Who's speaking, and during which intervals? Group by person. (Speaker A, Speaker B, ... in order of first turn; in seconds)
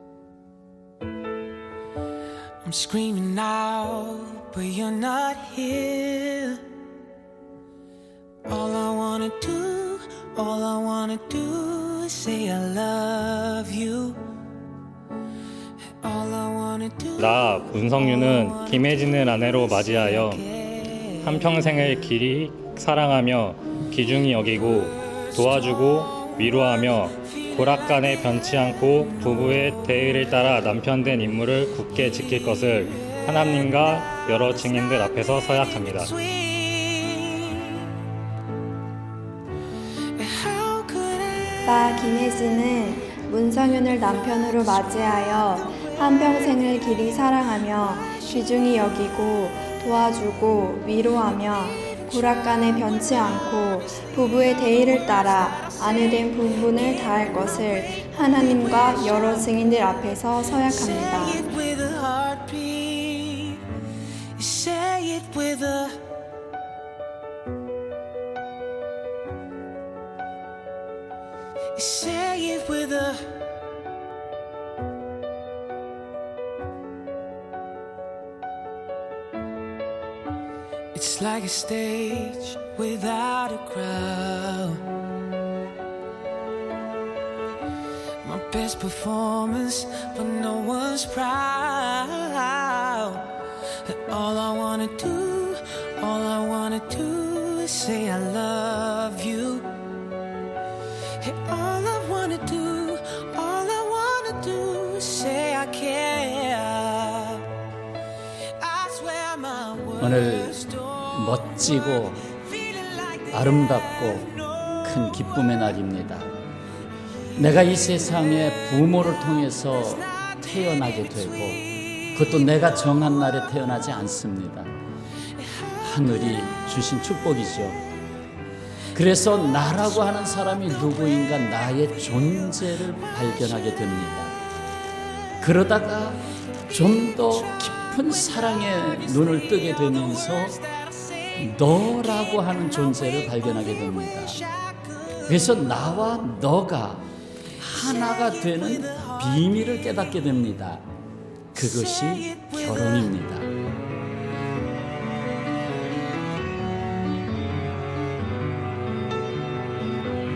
Speaker A: 2.6-6.7, 8.5-14.2, 16.0-21.1, 36.2-37.9, 40.2-41.7, 55.0-59.4, 60.7-63.6, 64.4-66.0, 71.8-73.4, 80.9-84.8, 88.2-99.7, 101.2-107.5, 108.6-111.1, 112.3-113.4, 114.5-114.8, 120.1-122.1, 138.6-141.4, 143.8-145.4, 147.8-149.2, 151.6-153.1
Speaker B: 17.2-20.5, 21.2-36.2
Speaker C: 41.6-61.5
Speaker D: 110.0-112.3, 113.3-116.3, 117.4-124.8, 125.8-127.8, 128.9-134.4, 135.4-140.6, 141.3-144.4, 145.2-150.8, 151.6-153.5